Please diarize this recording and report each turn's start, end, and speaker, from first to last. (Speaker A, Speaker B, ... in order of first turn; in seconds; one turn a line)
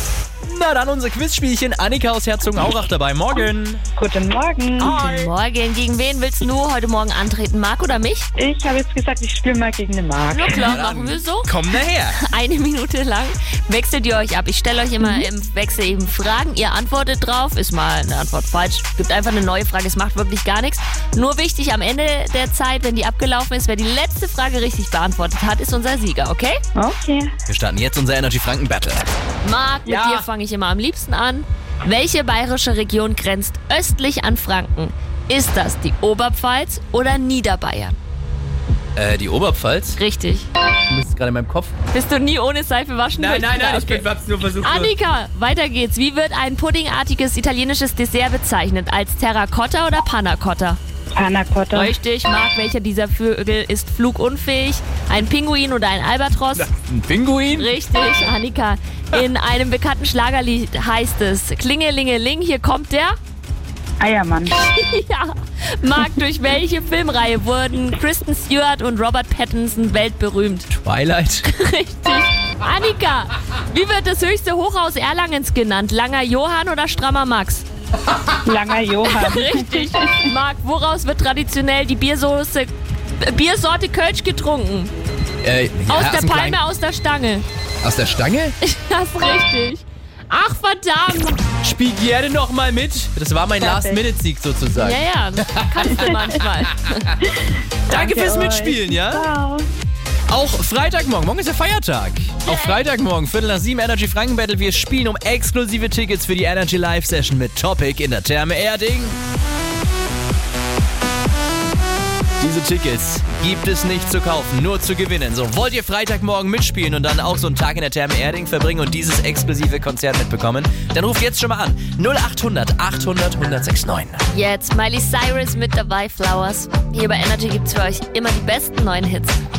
Speaker A: 0.4-3.8
Speaker B: 4.0-5.0
Speaker C: 4.8-8.3
Speaker A: 4.8-5.3
Speaker B: 8.4-10.7
Speaker C: 10.3-11.6
Speaker A: 10.5-12.2
Speaker C: 12.1-26.6
Speaker B: 26.8-27.3
Speaker A: 27.5-29.1
Speaker C: 29.4-38.0
Speaker A: 29.9-30.3
Speaker A: 39.0-40.0
Speaker C: 40.0-40.5
Speaker A: 40.9-41.8
Speaker C: 41.9-44.1
Speaker A: 43.2-44.9
Speaker C: 44.6-50.8
Speaker B: 51.1-51.9
Speaker C: 51.7-56.7
Speaker A: 56.6-57.8
Speaker C: 57.5-63.2
Speaker B: 64.0-64.6
Speaker C: 64.5-70.7
Speaker A: 70.7-71.5
Speaker C: 71.5-77.7
Speaker B: 78.5-80.3
Speaker C: 79.0-84.9
Speaker A: 85.4-86.6
Speaker C: 85.9-87.5
Speaker A: 87.8-88.6
Speaker C: 88.6-91.4
Speaker A: 91.6-97.1
Speaker B: 93.6-94.0
Speaker C: 94.8-97.2
Speaker A: 97.9-99.3
Speaker B: 97.9-99.7
Speaker A: 100.3-109.2
Speaker C: 102.5-102.9
Speaker A: 112.4-124.2
Speaker C: 124.3-129.4